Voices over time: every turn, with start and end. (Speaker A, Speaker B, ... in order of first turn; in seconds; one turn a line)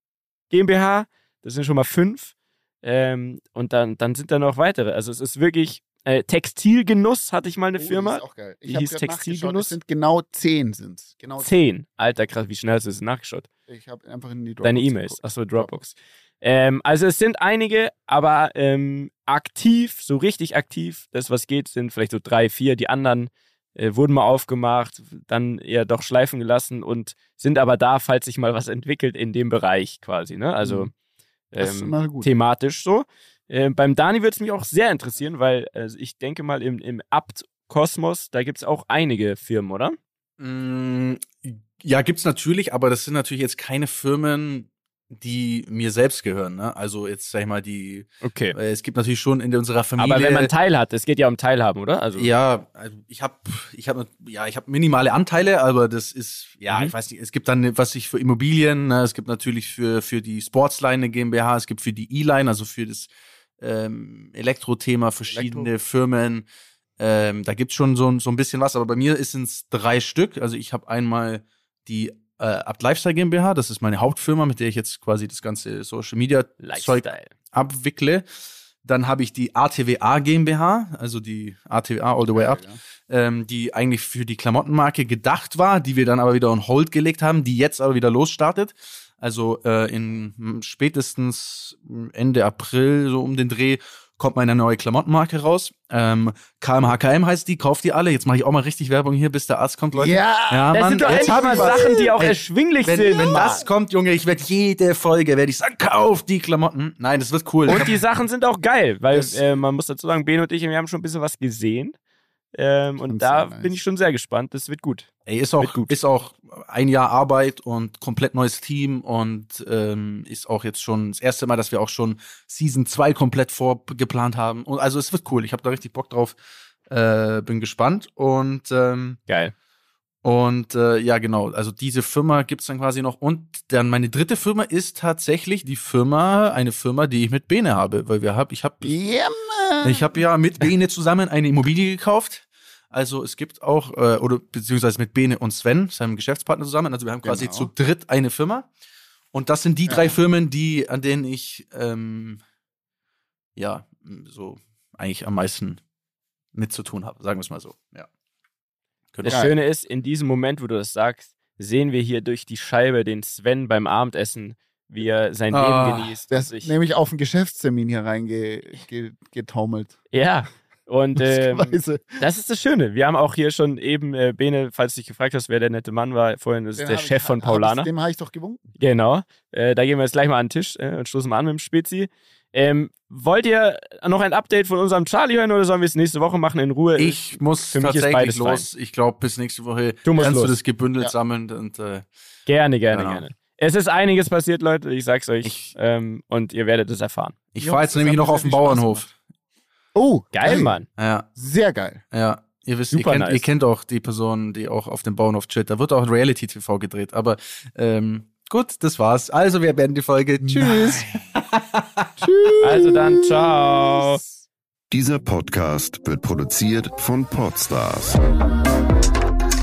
Speaker A: 0.5-9.8
Speaker B: 7.8-11.5
Speaker A: 11.4-13.5
Speaker B: 13.7-15.9
Speaker A: 14.6-15.9
Speaker A: 16.4-30.9
Speaker B: 30.6-30.9
Speaker A: 31.5-40.0
Speaker B: 31.6-32.3
Speaker C: 40.4-50.5
Speaker A: 48.2-48.6
Speaker A: 50.0-52.3
Speaker C: 52.2-66.5
Speaker B: 65.3-65.7
Speaker C: 67.0-78.2
Speaker A: 76.6-77.3
Speaker C: 78.8-107.9
Speaker B: 82.3-82.8
Speaker B: 99.9-102.2
Speaker A: 100.7-103.6
Speaker B: 103.2-103.5
Speaker A: 107.7-112.0
Speaker A: 112.5-115.9
Speaker B: 113.1-113.8
Speaker C: 115.3-126.4
Speaker C: 126.9-129.2
Speaker C: 130.2-138.9
Speaker B: 138.8-140.1
Speaker C: 139.8-148.7
Speaker B: 147.2-147.7
Speaker C: 149.3-152.4
Speaker C: 153.6-155.8
Speaker C: 156.6-158.1
Speaker C: 159.1-159.5
Speaker A: 159.2-166.7
Speaker B: 159.3-159.5
Speaker C: 165.5-166.2
Speaker B: 166.3-170.0
Speaker A: 170.1-177.9
Speaker B: 171.2-172.2
Speaker B: 176.8-178.6
Speaker A: 178.8-188.7
Speaker C: 187.0-192.1
Speaker A: 190.1-190.6
Speaker A: 192.5-197.4
Speaker C: 192.9-193.2
Speaker C: 195.4-195.7
Speaker C: 197.6-199.1
Speaker B: 197.6-199.0
Speaker B: 199.9-200.8
Speaker A: 200.3-200.9
Speaker C: 201.0-201.3
Speaker B: 201.4-202.0
Speaker C: 202.1-212.1
Speaker A: 202.9-203.5
Speaker B: 210.4-211.2
Speaker B: 212.2-214.3
Speaker A: 212.6-214.2
Speaker D: 214.9-218.2